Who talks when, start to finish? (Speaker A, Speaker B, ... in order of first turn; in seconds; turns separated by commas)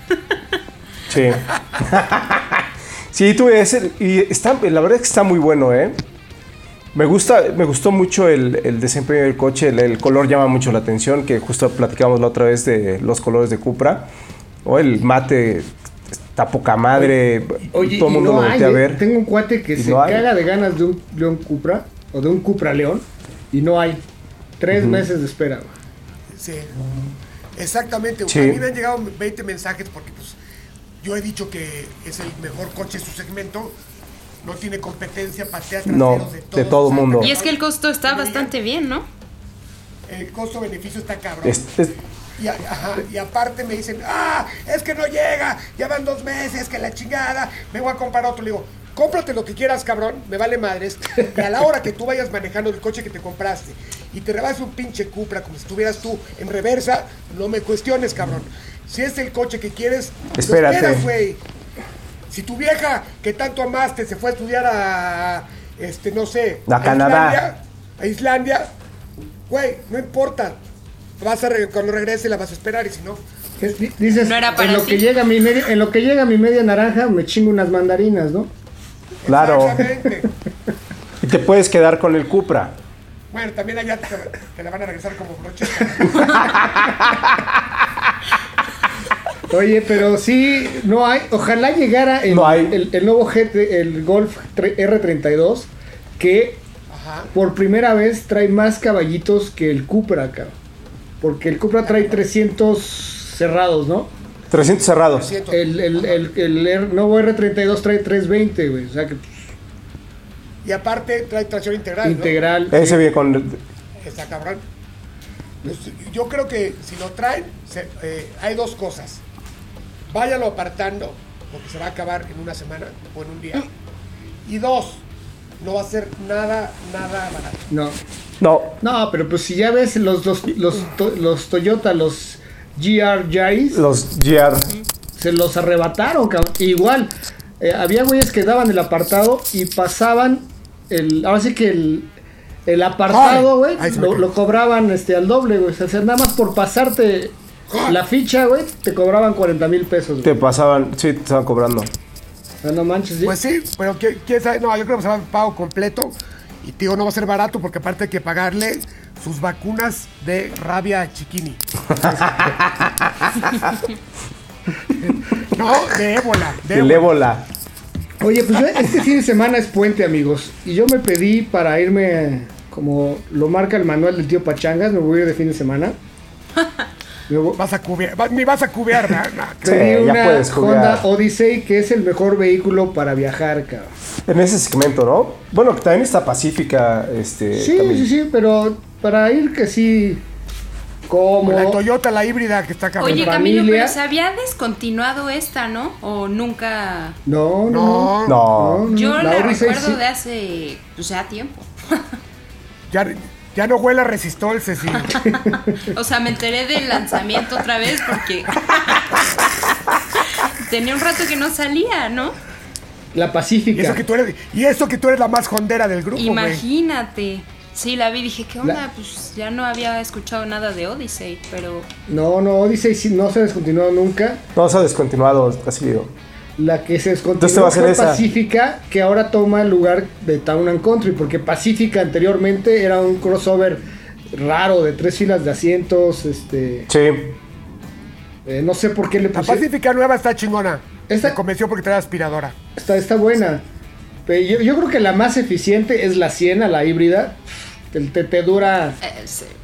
Speaker A: 1.1-6.0, Speaker A: 7.0-14.1, Speaker A: 14.7-15.7, Speaker A: 16.3-19.0, Speaker B: 17.7-24.0, Speaker A: 19.8-20.3, Speaker B: 24.6-25.7, Speaker A: 24.7-25.0, Speaker C: 26.3-26.8, Speaker C: 27.6-30.4, Speaker A: 28.3-28.6, Speaker C: 31.0-33.8, Speaker C: 34.4-38.5, Speaker A: 35.9-37.3, Speaker D: 37.2-39.1, Speaker C: 40.1-41.6, Speaker A: 41.5-41.9, Speaker C: 42.4-61.4, Speaker A: 60.4-61.1, Speaker C: 62.3-68.7, Speaker A: 66.7-67.4, Speaker C: 69.5-70.6, Speaker C: 71.2-73.2, Speaker B: 73.6-78.5, Speaker C: 74.0-74.3, Speaker D: 74.2-75.1, Speaker C: 79.2-80.3, Speaker A: 79.3-79.9, Speaker A: 81.2-82.8, Speaker C: 83.3-86.5, Speaker B: 89.5-96.6, Speaker A: 92.3-92.7, Speaker C: 96.9-97.3, Speaker B: 97.3-100.5, Speaker B: 101.2-104.1, Speaker A: 104.5-105.3, Speaker C: 105.1-106.2, Speaker B: 105.5-109.4, Speaker C: 110.6-112.4, Speaker B: 112.0-113.0, Speaker A: 112.7-113.6, Speaker C: 114.0-114.6, Speaker C: 115.6-119.2, Speaker C: 120.1-123.7, Speaker C: 124.5-125.0, Speaker C: 125.6-127.7, Speaker B: 127.7-128.0, Speaker A: 128.4-128.8, Speaker B: 128.8-133.8, Speaker A: 133.7-134.7, Speaker B: 135.2-142.1, Speaker B: 142.7-150.4, Speaker C: 143.1-144.3, Speaker C: 147.7-148.0, Speaker A: 150.2-151.9, Speaker B: 152.6-153.4, Speaker C: 153.2-161.6, Speaker B: 162.0-162.3, Speaker A: 162.3-162.6, Speaker C: 165.4-167.1, Speaker A: 166.7-167.5, Speaker B: 168.2-176.0, Speaker B: 177.3-177.6, Speaker C: 177.6-179.8, Speaker B: 179.6-183.9, Speaker A: 179.6-181.1, Speaker A: 184.3-188.1, Speaker B: 187.6-190.2, Speaker B: 191.1-191.8, Speaker C: 191.4-193.4, Speaker D: 193.0-197.2, Speaker B: 193.0-194.0, Speaker B: 197.3-200.0, Speaker C: 197.7-198.4, Speaker A: 198.2-198.9, Speaker D: 198.9-202.1, Speaker C: 202.9-205.2, Speaker D: 205.1-209.5, Speaker D: 210.6-212.4, Speaker B: 213.1-214.0, Speaker C: 213.7-216.6, Speaker D: 216.2-221.9, Speaker B: 222.1-224.4, Speaker A: 224.6-226.1, Speaker B: 226.6-236.9, Speaker A: 227.4-228.2, Speaker A: 236.9-237.4, Speaker B: 238.5-239.7, Speaker C: 239.3-242.6, Speaker B: 241.1-241.4, Speaker B: 242.8-243.6, Speaker B: 244.3-249.0, Speaker D: 249.0-249.6